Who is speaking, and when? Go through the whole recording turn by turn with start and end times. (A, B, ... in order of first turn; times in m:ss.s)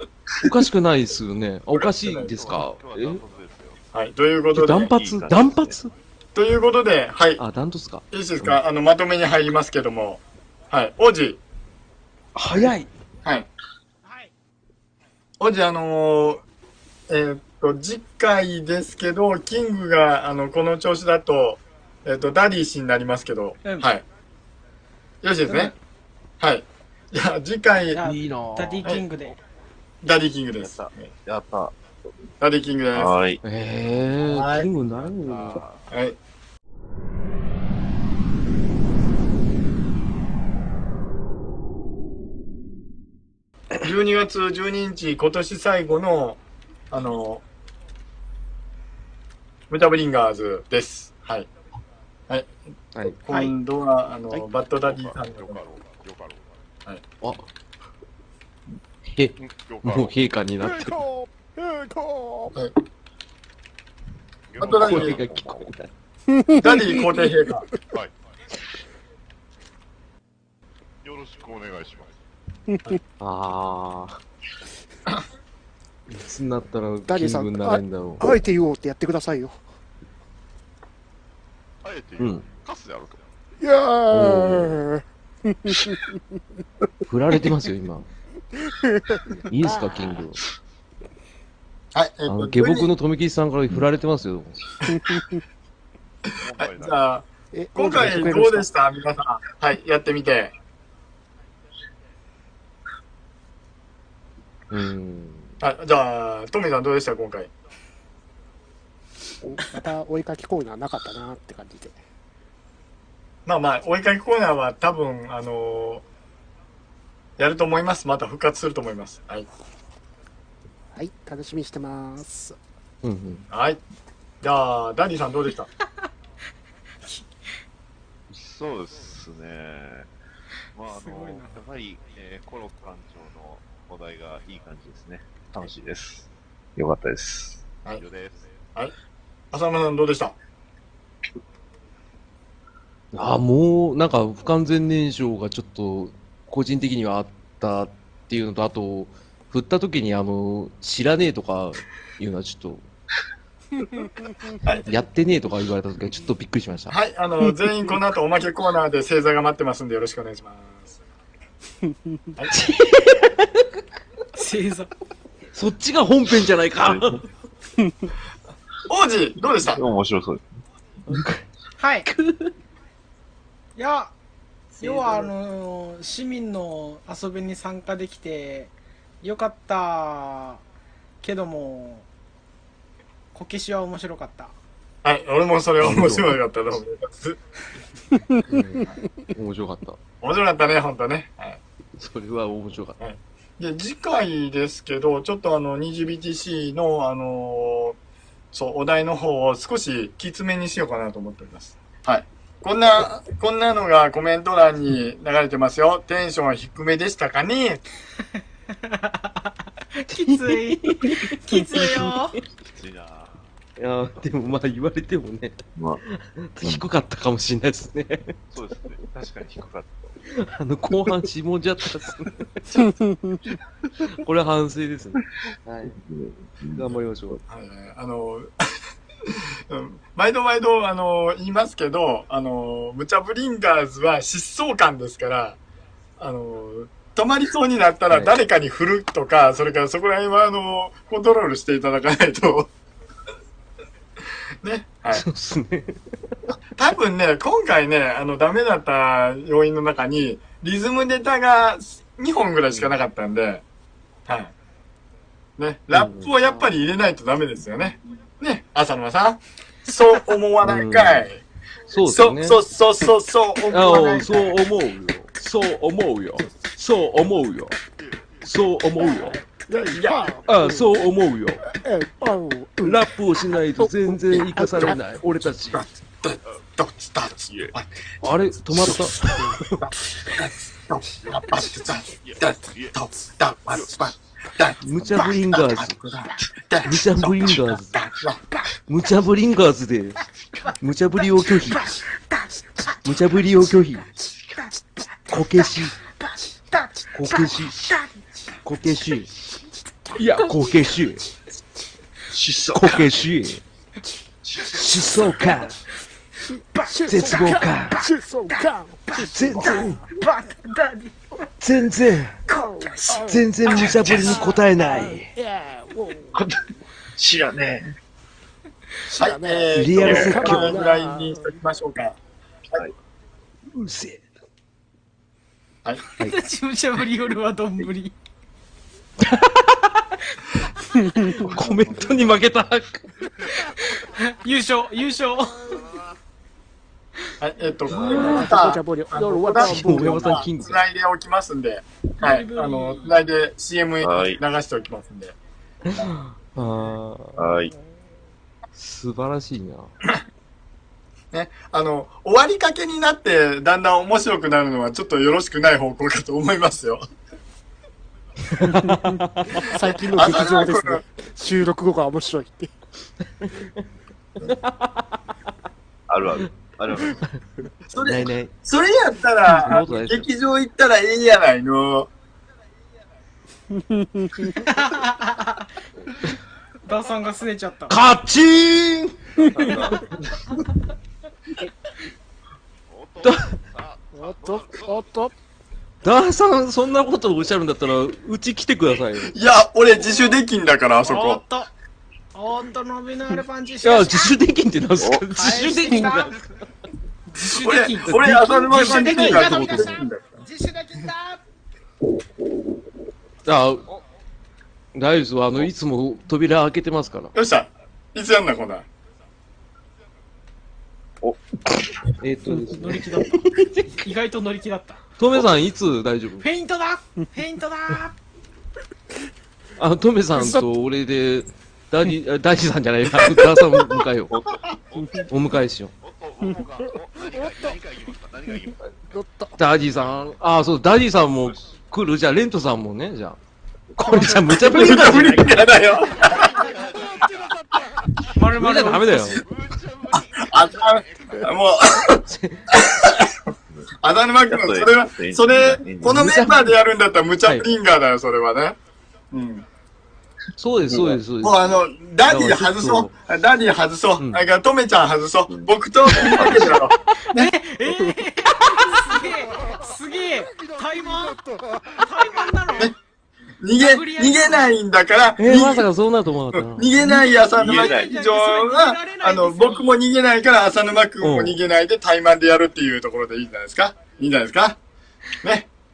0:00.4-0:03.2 A
0:01.7-0:02.3 B
0:02.2-0:03.8 C
0:03.9-0:04.9 B
0:04.5-0:05.9 A
0:04.9-0:05.8 C
0:06.4-0:07.4 B
0:07.4-0:08.6 A
0:08.1-0:11.4 B
0:12.4-0:12.9 A
0:14.0-0:14.3 D
0:15.4-0:16.4 B
0:17.1-0:24.0 B
0:25.2-0:25.7 B
0:25.5-0:25.8 D
0:26.4-0:28.0 B
0:27.9-0:29.4 D
0:28.0-0:28.9 A
0:30.0-0:31.1 B
0:30.6-0:31.8 C
0:32.4-0:33.1 B
0:32.9-0:33.4 C
0:33.4-0:35.6 A
0:34.2-0:34.7 B
0:35.0-0:35.9 C
0:35.9-0:36.2 B
0:43.8-0:46.4 B
0:46.9-0:47.4 B
0:49.7-0:51.5 B
0:53.2-0:55.6 B
0:54.8-0:56.6 C
0:57.2-0:57.5 A
0:59.1-1:01.0 A
0:59.4-1:00.3 C
1:00.6-1:02.6 E
1:04.5-1:05.7 C
1:04.6-1:05.2 B
1:04.8-1:05.9 A
1:06.3-1:07.3 E
1:06.6-1:07.7 B
1:11.0-1:12.1 C
1:12.7-1:13.0 E
1:13.2-1:14.2 A
1:16.1-1:18.3 A
1:17.1-1:19.6 E
1:21.8-1:23.2 C
1:23.6-1:26.2 E
1:24.1-1:24.8 A
1:27.1-1:28.1 A
1:28.6-1:30.2 E
1:29.5-1:30.4 A
1:31.9-1:32.9 B
1:32.3-1:34.6 A
1:35.0-1:35.3 E
1:36.4-1:37.0 C
1:36.6-1:40.5 B
1:37.5-1:38.7 E
1:44.7-1:45.5 A
1:45.6-1:47.5 B
1:49.4-1:52.0 E
1:53.5-1:56.0 B
1:57.4-1:59.5 B
2:00.9-2:02.6 E
2:03.0-2:03.4 A
2:03.5-2:03.8 B
2:04.4-2:05.7 B
2:08.3-2:10.1 C
2:10.8-2:18.5 C
2:10.9-2:11.6 D
2:19.5-2:20.4 B
2:23.1-2:32.8 A
2:34.9-2:37.0 A
2:36.9-2:40.9 B
2:42.5-2:43.7 A
2:44.4-2:44.9 D
2:45.6-2:47.3 A
2:46.8-2:47.1 C
2:48.9-2:49.8 B
2:49.5-2:50.6 C
2:51.1-2:51.5 A
2:51.8-2:52.1 D
2:52.1-2:52.5 A
2:53.8-2:54.1 D
2:54.8-3:00.6 D
2:54.8-2:55.3 B
3:01.2-3:02.1 D
3:03.3-3:04.6 D
3:05.0-3:07.4 B
3:05.8-3:06.4 A
3:08.3-3:08.8 E
3:08.5-3:10.0 A
3:10.2-3:11.6 B
3:12.0-3:13.0 A
3:13.0-3:18.0 B
3:18.5-3:27.8 B
3:28.8-3:32.4 D
3:30.1-3:32.2 A
3:32.6-3:33.4 C
3:33.8-3:38.4 A
3:35.8-3:36.0 C
3:38.5-3:40.2 C
3:40.3-3:42.9 A
3:42.9-3:43.4 E
3:44.1-3:46.0 A
3:45.9-3:46.9 C
3:46.7-3:47.4 A
3:47.5-3:48.5 B
3:49.3-3:55.6 B
3:56.2-4:02.7 B
3:58.1-3:58.4 A
4:04.6-4:05.2 B
4:05.1-4:06.4 A
4:06.8-4:13.6 B
4:14.3-4:14.5 B
4:15.6-4:21.4 B
4:15.9-4:16.3 A
4:20.6-4:21.3 A
4:21.9-4:22.6 A
4:22.0-4:24.6 B
4:23.7-4:27.8 A
4:28.4-4:29.4 A
4:29.1-4:30.9 E
4:29.9-4:30.3 B
4:30.5-4:31.6 A
4:31.8-4:33.1 E
4:32.8-4:35.8 A
4:33.7-4:35.0 E
4:35.6-4:37.9 B
4:37.3-4:37.8 C
4:38.2-4:39.9 A
4:39.8-4:48.4 B
4:41.2-4:43.0 C
4:43.7-4:44.1 C
4:44.8-4:46.0 A
4:46.8-4:48.0 A
4:48.9-4:50.2 A
4:50.8-4:51.9 A
4:53.0-4:54.0 A
4:54.6-4:55.6 E
4:55.3-4:56.0 A
4:56.2-4:57.5 E
4:57.1-4:57.8 A
4:58.6-4:59.3 A
5:00.1-5:01.3 A
5:02.3-5:03.1 C
5:02.7-5:03.6 A
5:04.4-5:05.5 C
5:04.7-5:05.8 A
5:06.4-5:10.1 E
5:07.1-5:08.0 A
5:09.2-5:10.0 A
5:09.8-5:11.2 D
5:11.6-5:12.4 A
5:12.5-5:13.3 D
5:12.5-5:16.4 E
5:13.3-5:15.3 A
5:13.7-5:14.4 C
5:17.2-5:18.0 C
5:19.1-5:21.6 E
5:19.2-5:22.2 B
5:19.8-5:20.8 A
5:20.0-5:20.4 C
5:23.7-5:24.2 A
5:26.2-5:28.2 D
5:29.2-5:30.1 A
5:31.2-5:33.3 A
5:31.5-5:32.2 B
5:34.1-5:35.8 D
5:35.6-5:36.2 C
5:37.4-5:45.4 B
5:37.9-5:38.4 C
5:38.0-5:40.5 E
5:39.5-5:40.8 A
5:42.2-5:43.2 D
5:44.0-5:44.4 C
5:45.8-5:47.5 A
5:47.4-5:47.7 C
5:48.8-5:49.9 A
5:51.3-5:57.0 B
5:58.5-5:59.7 A
5:58.9-6:02.7 E
5:59.8-6:01.0 B
6:03.4-6:03.7 A
6:04.4-6:05.2 A
6:06.1-6:07.2 C
6:07.1-6:07.4 A
6:07.9-6:12.1 B
6:08.0-6:08.5 A
6:09.5-6:10.3 A
6:13.7-6:14.7 E
6:14.6-6:15.7 D
6:16.8-6:18.0 D
6:17.9-6:19.4 A
6:19.4-6:20.6 C
6:22.9-6:25.3 C
6:23.2-6:23.6 A
6:24.1-6:25.3 E
6:26.0-6:29.4 A
6:29.3-6:31.4 B
6:31.0-6:31.7 D
6:32.3-6:34.4 D
6:33.8-6:36.4 A
6:35.0-6:35.2 C
6:35.3-6:36.4 D
6:37.3-6:41.4 D
6:37.6-6:40.2 B
6:38.1-6:40.1 A
6:43.4-6:43.8 A
6:44.9-6:47.3 A
6:47.4-6:48.9 B
6:51.2-6:52.1 C
6:52.2-6:54.0 A
6:52.6-6:55.0 D
6:55.2-6:56.5 A
6:56.4-6:58.2 D
6:59.8-7:04.3 A
7:00.4-7:00.7 E
7:04.3-7:05.3 C
7:05.3-7:05.9 A
7:06.0-7:09.0 C
7:07.2-7:07.8 E
7:09.1-7:09.6 E
7:09.6-7:13.4 A
7:09.6-7:10.4 C
7:13.9-7:15.7 A
7:14.1-7:16.7 B
7:16.1-7:18.3 C
7:16.4-7:18.2 E
7:18.3-7:19.4 D
7:18.5-7:19.4 A
7:19.4-7:22.0 C
7:20.1-7:28.8 B
7:22.1-7:22.8 A
7:24.5-7:26.4 C
7:26.0-7:26.8 A
7:27.4-7:27.7 A
7:29.3-7:29.6 B
7:30.6-7:33.1 A
7:31.0-7:37.5 B
7:35.5-7:36.9 C
7:36.2-7:36.6 A
7:37.2-7:41.4 D
7:38.6-7:42.7 E
7:42.0-7:42.9 D
7:43.6-7:45.9 B
7:43.8-7:44.7 D
7:45.4-7:46.9 A
7:46.6-7:54.8 B
7:47.0-7:48.1 C
7:47.6-7:50.0 D
7:51.2-7:51.6 A
7:55.4-7:55.7 B